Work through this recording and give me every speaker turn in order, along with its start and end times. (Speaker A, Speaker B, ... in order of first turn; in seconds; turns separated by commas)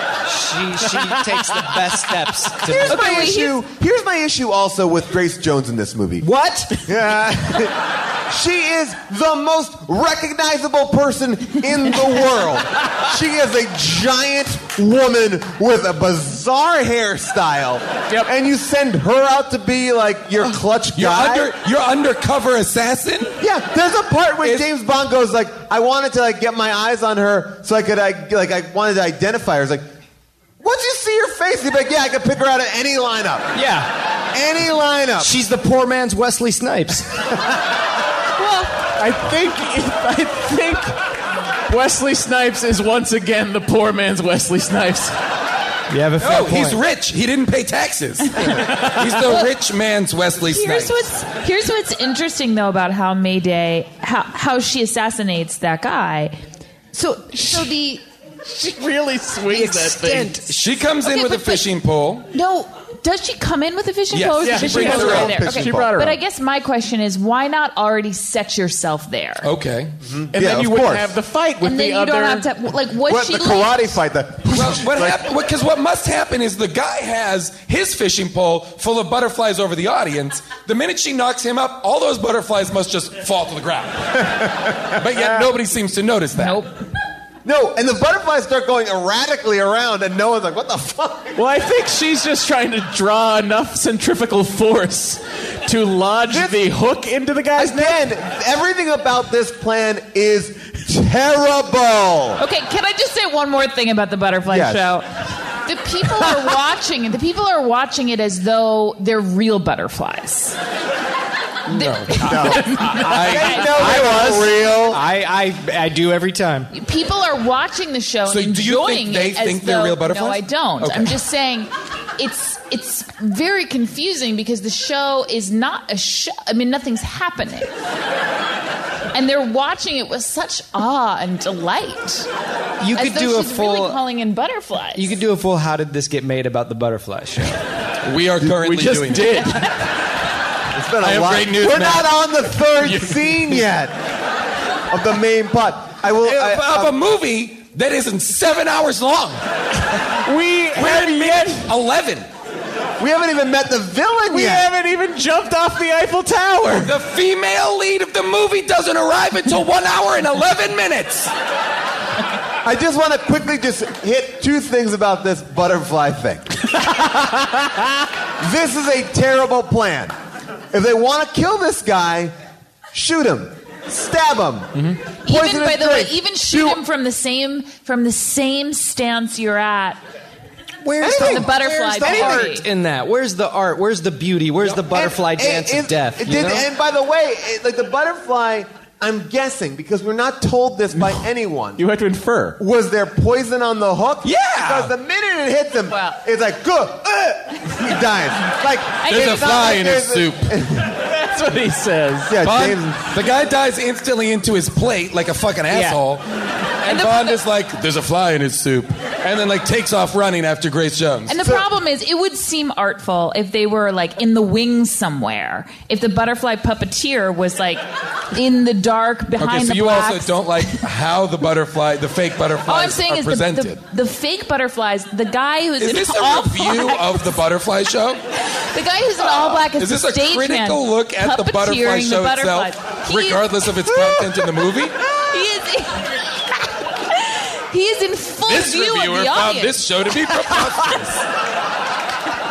Speaker A: 0.2-3.0, Speaker B: 2.6-7.8, Speaker C: 2.9-3.6, Speaker A: 6.2-6.7, Speaker B: 8.3-21.5, Speaker D: 20.9-23.3, Speaker B: 23.4-29.9, Speaker B: 30.6-33.5, Speaker A: 33.5-33.9, Speaker B: 34.3-35.3, Speaker A: 35.2-37.1, Speaker C: 38.4-38.7, Speaker E: 39.0-40.9, Speaker E: 41.7-45.1, Speaker A: 45.9-46.8, Speaker D: 46.2-51.0, Speaker C: 49.2-49.5, Speaker C: 50.4-56.4, Speaker C: 56.9-58.0, Speaker E: 58.5-60.4, Speaker A: 59.5-60.7, Speaker D: 60.5-62.2, Speaker C: 61.0-61.7, Speaker C: 62.3-69.5, Speaker D: 64.1-65.4, Speaker E: 64.4-66.2, Speaker B: 64.6-65.9, Speaker D: 69.4-69.9, Speaker B: 70.0-71.1, Speaker E: 70.3-72.5, Speaker C: 71.6-74.0, Speaker B: 73.0-75.2, Speaker D: 74.5-84.3, Speaker D: 84.9-86.6, Speaker C: 86.3-86.7, Speaker B: 87.4-91.4, Speaker E: 91.3-98.0, Speaker B: 96.3-96.6, Speaker B: 97.5-102.4, Speaker C: 102.4-105.0, Speaker B: 104.5-104.9, Speaker C: 105.6-110.6, Speaker D: 111.7-114.4, Speaker C: 111.7-114.0, Speaker B: 112.2-115.0, Speaker A: 113.9-114.3, Speaker A: 114.9-116.7, Speaker C: 116.7-127.7, Speaker D: 118.3-121.2, Speaker C: 129.1-132.3, Speaker A: 132.8-134.0, Speaker C: 132.9-135.1, Speaker A: 134.9-137.6, Speaker D: 138.0-139.5, Speaker E: 138.4-139.7, Speaker B: 140.7-143.9, Speaker D: 141.0-142.1, Speaker B: 144.9-146.9, Speaker D: 146.2-149.4, Speaker E: 150.2-151.7, Speaker D: 150.7-152.2, Speaker B: 153.0-154.7, Speaker E: 154.3-156.9, Speaker D: 156.8-161.3, Speaker B: 162.6-167.4, Speaker B: 168.4-170.1, Speaker B: 170.7-172.3, Speaker B: 172.9-176.8, Speaker C: 175.2-180.0, Speaker A: 180.8-186.7, Speaker B: 181.0-182.6, Speaker C: 181.1-182.6, Speaker B: 184.8-191.8, Speaker E: 191.8-192.6, Speaker B: 192.6-200.9, Speaker D: 194.2-194.9, Speaker C: 195.9-196.2, Speaker C: 199.0-199.4, Speaker D: 199.1-200.5, Speaker E: 201.0-202.3, Speaker B: 202.3-203.0, Speaker D: 202.4-206.2, Speaker E: 205.7-206.0, Speaker D: 206.8-211.4, Speaker C: 206.8-207.4, Speaker C: 211.3-220.8, Speaker D: 219.4-223.8, Speaker C: 222.7-227.4, Speaker D: 225.8-228.2, Speaker C: 228.6-234.1, Speaker D: 229.2-234.9, Speaker C: 235.3-236.1, Speaker C: 237.1-240.7, Speaker D: 238.4-241.2